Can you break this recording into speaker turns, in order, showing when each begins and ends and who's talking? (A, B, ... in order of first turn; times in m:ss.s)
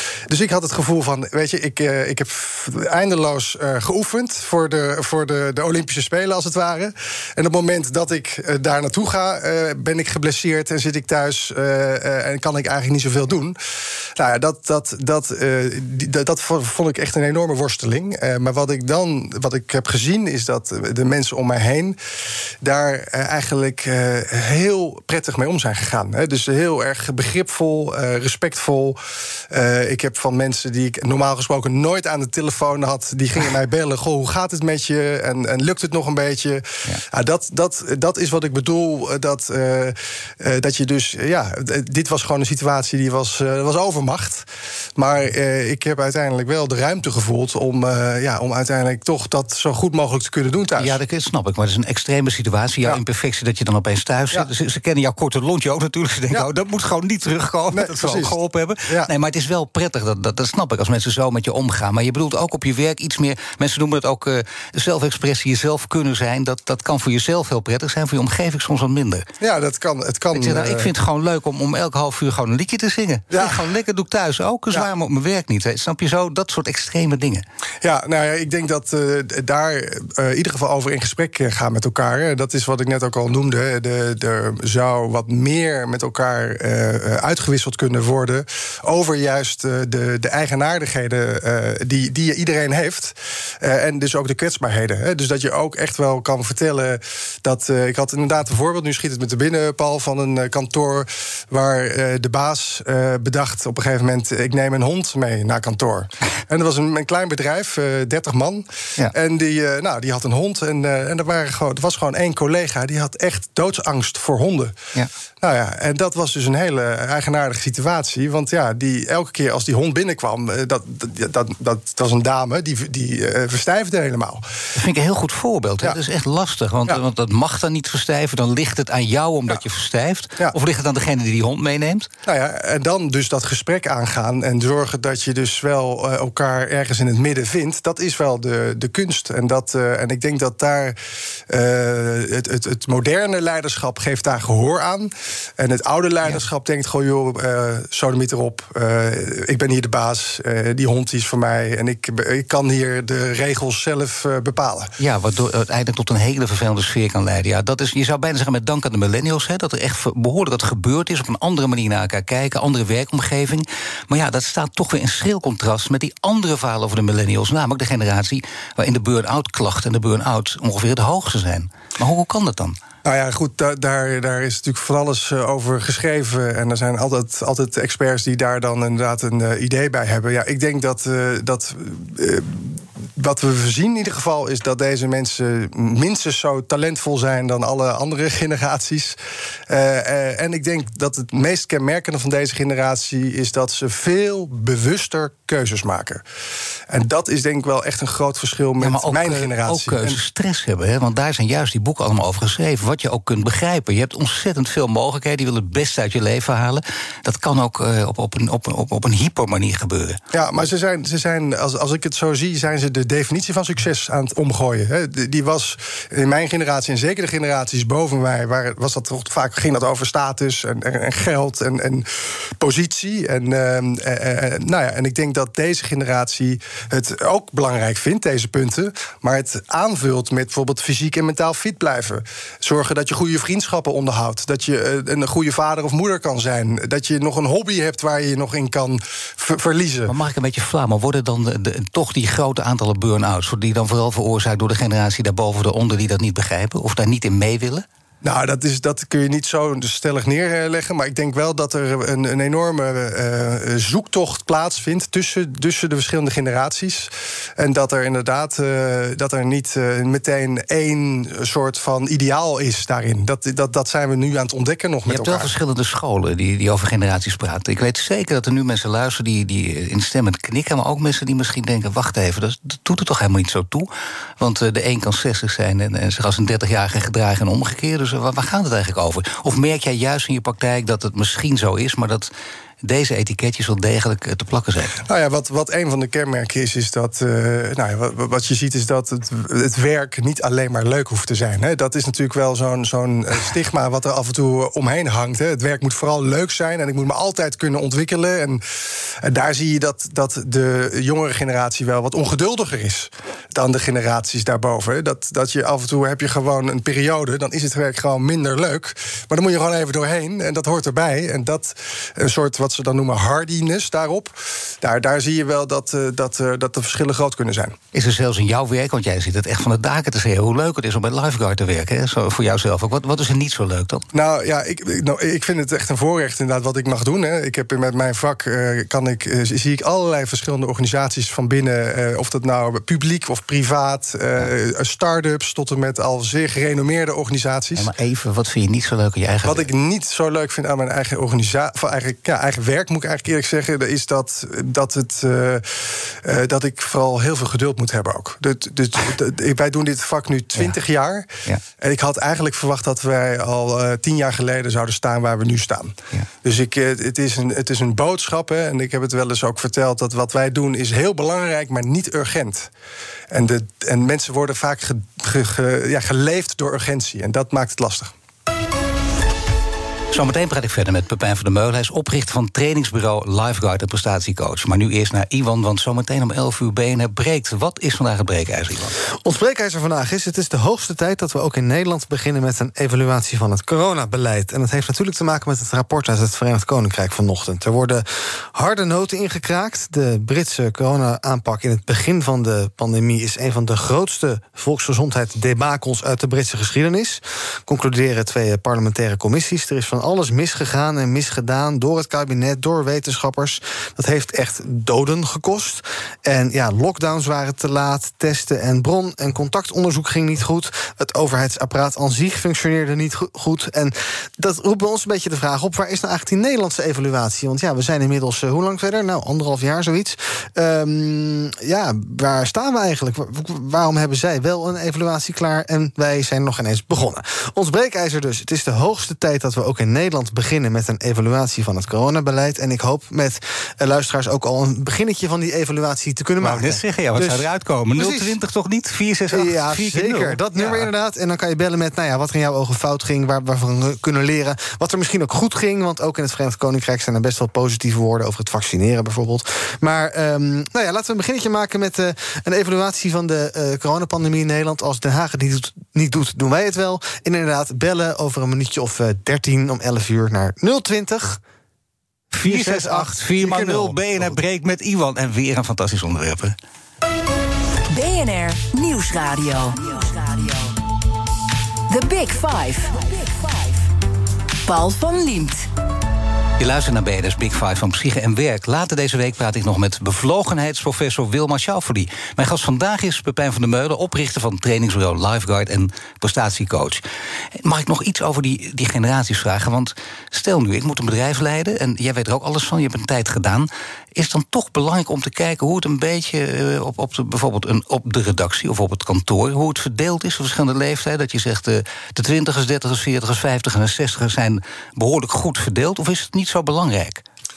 0:00.3-0:13.6 A
0:14.2-0:22.0 A
0:22.6-0:29.0 A
0:29.5-0:51.0 A
0:50.8-1:09.3 B
0:57.7-0:59.1 A
1:09.4-1:10.9 A
1:10.3-1:17.4 B
1:13.3-1:13.6 A
1:17.8-1:54.8 A
1:55.4-2:04.4 A
2:04.8-2:12.1 B
2:12.3-2:21.0 A
2:21.5-2:34.9 A
2:35.0-2:52.8 B
2:53.0-3:16.2 A
3:16.9-3:20.2 A
3:18.8-3:30.2 B
3:30.3-4:00.1 A
4:00.1-4:07.8 B
4:08.2-4:25.5 A
4:25.1-4:33.9 B
4:34.4-4:42.3 B
4:42.8-4:45.0 B
4:45.0-4:58.6 A
4:59.2-5:17.8 A
5:17.9-5:24.0 B
5:24.1-5:37.9 A
5:37.8-5:39.7 B
5:39.4-6:02.7 A
6:03.3-6:08.1 A
6:10.1-6:19.0 B
6:19.2-7:18.4 C
7:16.4-7:20.9 B
7:19.3-7:41.4 C
7:42.3-7:46.6 B
7:42.4-7:44.3 C
7:47.9-7:50.8 D
7:51.9-7:53.9 D
7:54.7-7:55.7 D
7:56.6-8:07.0 B
8:07.6-8:27.2 B